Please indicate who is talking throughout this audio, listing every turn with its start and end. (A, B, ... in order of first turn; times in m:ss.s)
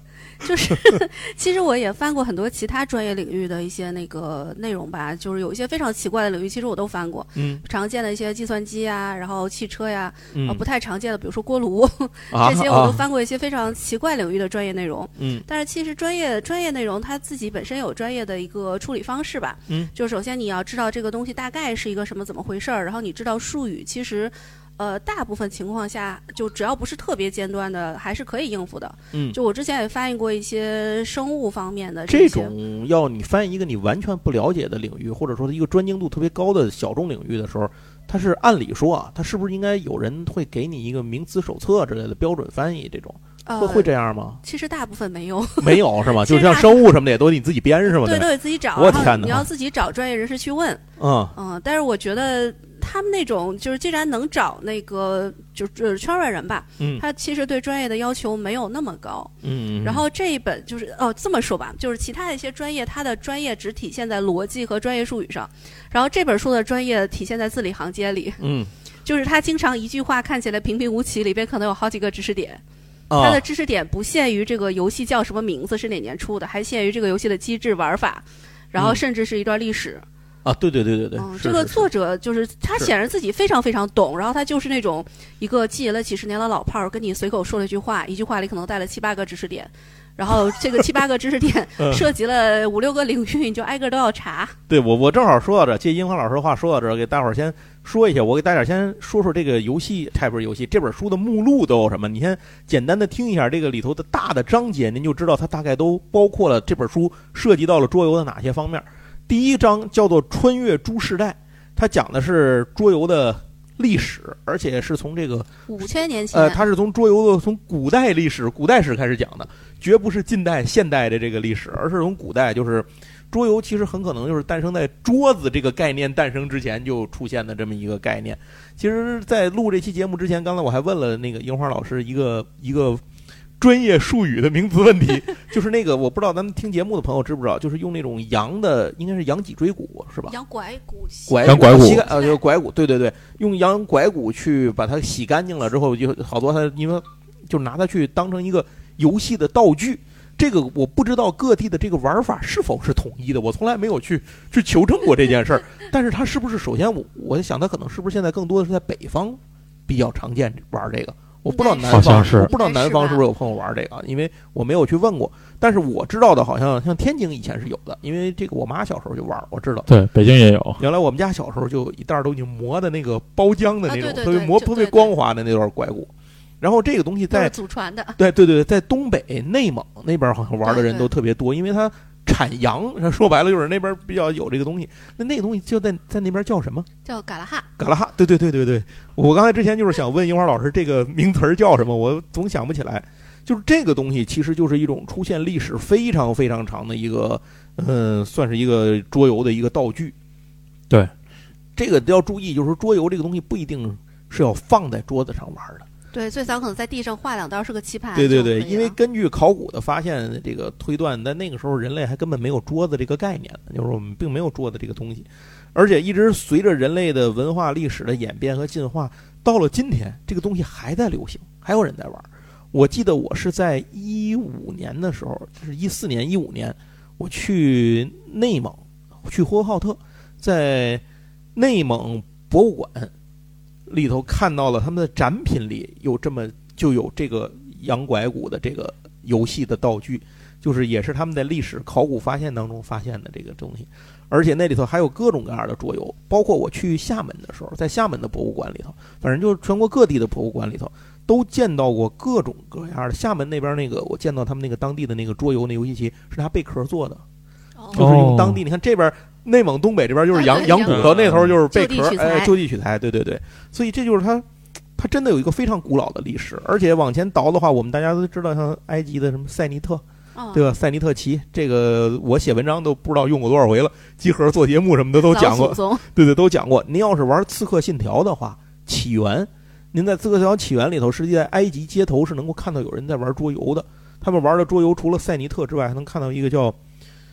0:00.4-0:32.5 A
0:07.4-0:07.6 B
0:10.3-0:10.6 B
0:12.3-0:13.0 B
0:15.2-0:15.4 B
0:29.1-0:29.4 B
0:32.1-0:44.4 B
0:43.5-0:43.9 A
0:44.4-0:47.0 A
0:45.6-0:49.5 B
0:47.8-0:50.8 A
0:51.0-0:51.3 B
0:51.4-1:08.4 A
0:56.8-0:57.0 B
0:59.4-1:00.0 B
1:08.4-1:08.7 B
1:09.0-1:12.6 A
1:13.1-1:13.4 B
1:13.2-1:20.0 A
1:18.8-1:19.0 B
1:20.4-1:21.9 B
1:21.2-1:34.6 A
1:31.8-1:32.0 B
1:34.7-1:55.5 B
1:55.7-1:56.6 A
1:56.3-2:13.0 B
2:13.6-2:20.3 B
2:20.3-2:22.4 A
2:21.3-2:49.9 B
2:21.4-2:22.0 C
2:41.5-2:43.2 A
2:41.9-2:42.5 C
2:49.9-2:50.8 C
2:50.8-2:56.1 B
2:53.9-2:55.1 A
2:56.6-2:57.5 B
2:57.3-2:58.2 A
2:58.2-3:06.9 B
3:00.6-3:01.1 A
3:07.0-3:07.7 A
3:07.8-3:20.1 B
3:21.8-3:25.9 B
3:26.1-3:29.0 A
3:28.1-3:51.0 B
3:51.6-3:53.1 B
3:53.9-4:17.2 B
4:17.8-4:18.1 A
4:17.9-4:24.4 B
4:18.0-4:18.6 C
4:20.3-4:21.1 A
4:20.9-4:21.5 C
4:21.6-4:22.5 A
4:25.0-4:46.8 B
4:30.4-4:30.7 A
4:35.2-4:36.0 A